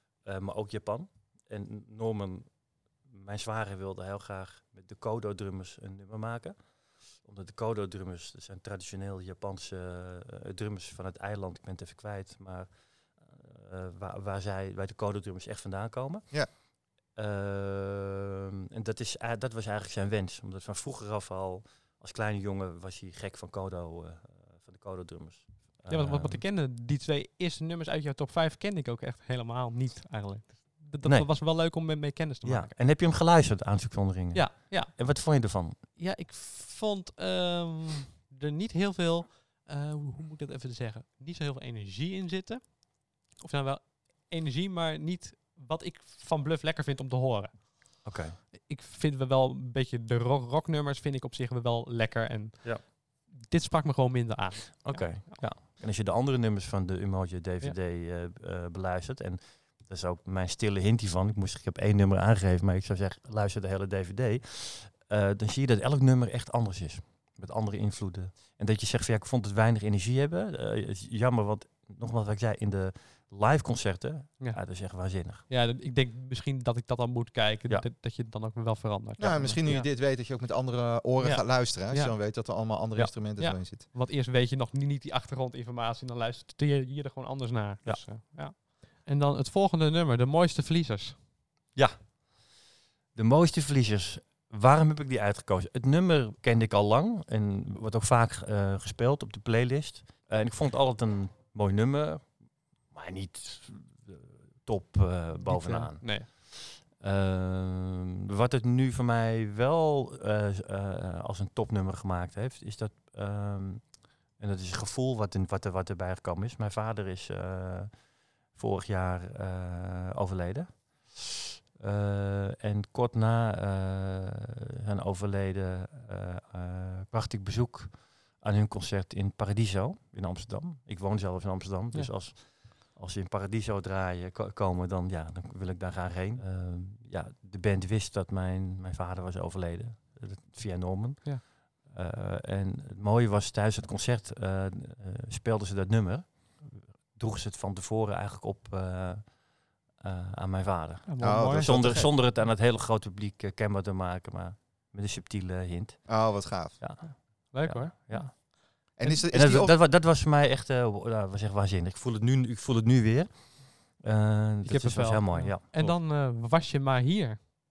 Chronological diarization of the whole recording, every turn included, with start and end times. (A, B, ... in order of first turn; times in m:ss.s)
0:00.2-0:26.4 A
0:25.9-0:32.8 B
0:31.0-0:31.8 A
0:32.4-0:35.8 A
0:34.3-0:55.5 B
0:48.0-0:48.4 A
0:54.8-1:15.5 A
1:14.4-1:19.9 B
1:19.2-1:23.9 C
1:21.2-1:22.2 B
1:23.4-1:31.2 B
1:31.8-1:32.1 A
1:33.2-2:01.2 A
1:45.4-1:46.3 B
2:01.8-2:38.5 A
2:31.1-2:32.6 B
2:31.2-2:32.1 C
2:36.1-2:37.0 C
2:37.0-2:39.2 B
2:39.0-2:39.8 C
2:39.1-2:46.0 A
2:44.6-2:47.4 B